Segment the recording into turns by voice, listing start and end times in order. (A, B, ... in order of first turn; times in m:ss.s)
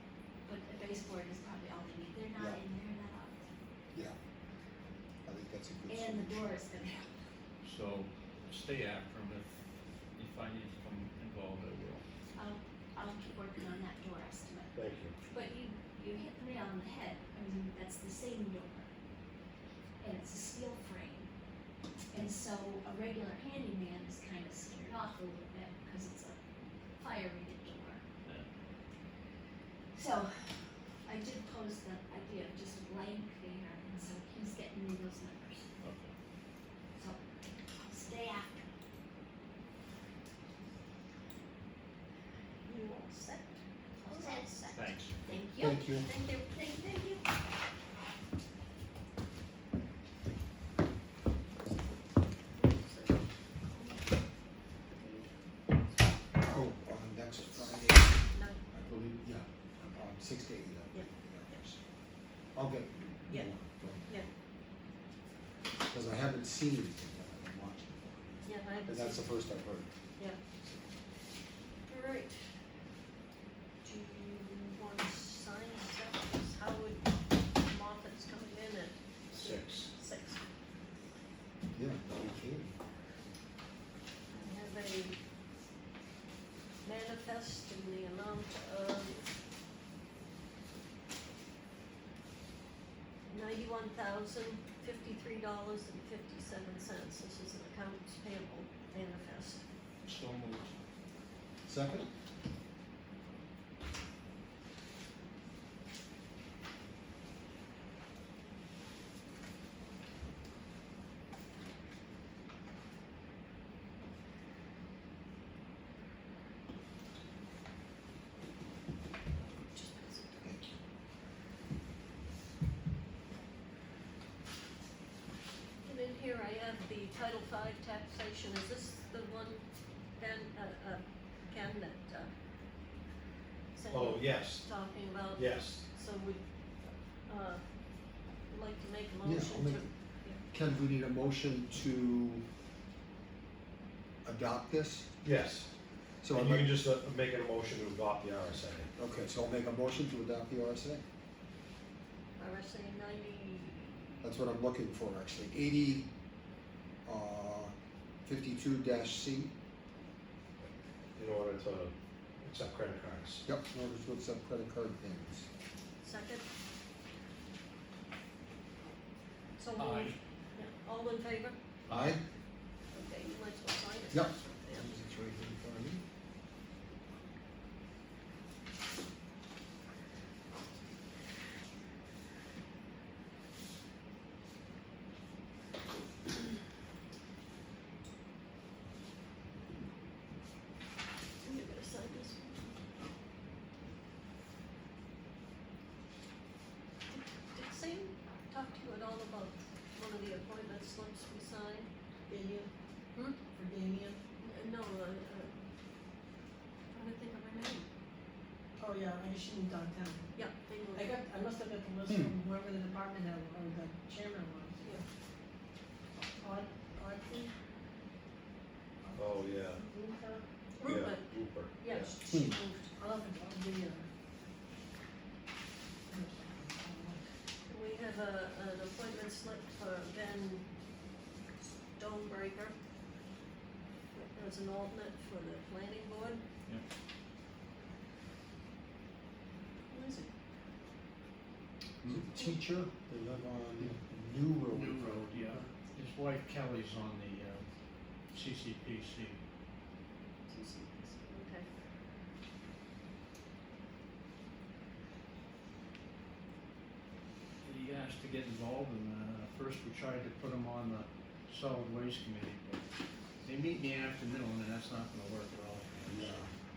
0:00.4-0:03.5 A
0:02.4-0:02.6 B
0:05.2-0:06.6 B
0:05.9-0:07.1 A
0:07.6-0:09.6 C
0:10.1-0:12.0 C
0:12.4-0:14.7 A
0:14.7-0:15.1 D
0:15.3-0:18.9 A
0:20.0-0:21.3 A
0:22.1-0:26.4 A
0:27.0-0:28.0 A
0:28.2-0:28.5 C
0:29.9-0:30.5 A
0:31.0-0:35.6 A
0:35.8-0:36.1 C
0:37.8-0:38.6 A
0:42.6-0:44.7 E
0:44.0-0:44.7 A
0:44.6-0:45.2 C
0:45.2-0:45.8 A
0:45.6-0:46.1 B
0:45.9-0:46.8 E
0:46.5-0:47.2 A
0:52.5-0:54.1 E
0:54.9-0:56.0 E
0:56.4-1:01.8 B
0:58.3-0:58.6 E
1:00.9-1:01.6 E
1:02.5-1:04.2 B
1:05.9-1:09.9 B
1:08.4-1:09.3 E
1:10.6-1:10.9 B
1:11.9-1:12.5 E
1:13.8-1:20.4 E
1:19.3-1:19.9 D
1:21.7-1:22.8 B
1:24.3-1:25.2 E
1:26.8-1:29.2 E
1:33.3-1:39.6 E
1:40.0-1:40.7 C
1:41.6-1:42.1 B
1:59.3-2:00.6 E
2:00.4-2:00.8 B
2:05.8-2:09.6 E
2:10.2-2:12.3 E
2:13.7-2:17.6 E
2:13.9-2:14.7 D
2:15.3-2:15.8 D
2:18.5-2:20.4 E
2:19.2-2:19.9 B
2:20.5-2:22.4 B
2:24.2-2:25.1 B
2:25.2-2:25.7 D
2:26.2-2:26.7 B
2:26.3-2:28.9 D
2:29.0-2:31.0 B
2:32.4-2:34.2 E
2:34.2-2:36.1 B
2:37.0-2:37.7 B
2:38.2-2:39.5 B
2:41.2-2:43.4 D
2:43.4-2:45.5 B
2:46.0-2:46.4 E
2:49.6-2:51.6 E
2:49.7-2:50.2 C
2:51.9-2:52.2 C
2:51.9-2:52.2 B
2:52.9-2:55.0 E
2:54.1-2:56.0 B
3:11.4-3:12.8 E
3:17.1-3:21.9 E
3:22.3-3:22.7 F
3:23.5-3:24.2 F
3:24.4-3:25.6 E
3:26.9-3:27.9 E
3:28.8-3:30.3 F
3:30.3-3:31.2 E
3:30.9-3:35.0 F
3:32.1-3:32.3 B
3:36.4-3:37.5 F
3:39.0-3:40.9 F
3:39.2-3:39.8 D
3:40.8-3:42.9 E
3:40.8-3:42.1 D
3:42.3-3:42.6 B
3:43.0-3:44.1 F
3:46.1-3:47.2 F
3:47.7-3:50.6 E
3:52.0-3:52.7 E
3:54.3-3:56.4 E
3:59.9-4:00.3 E
4:02.0-4:05.7 B
4:04.7-4:09.4 C
4:10.5-4:11.7 E
4:17.6-4:22.8 C
4:23.4-4:26.1 C
4:26.0-4:26.5 B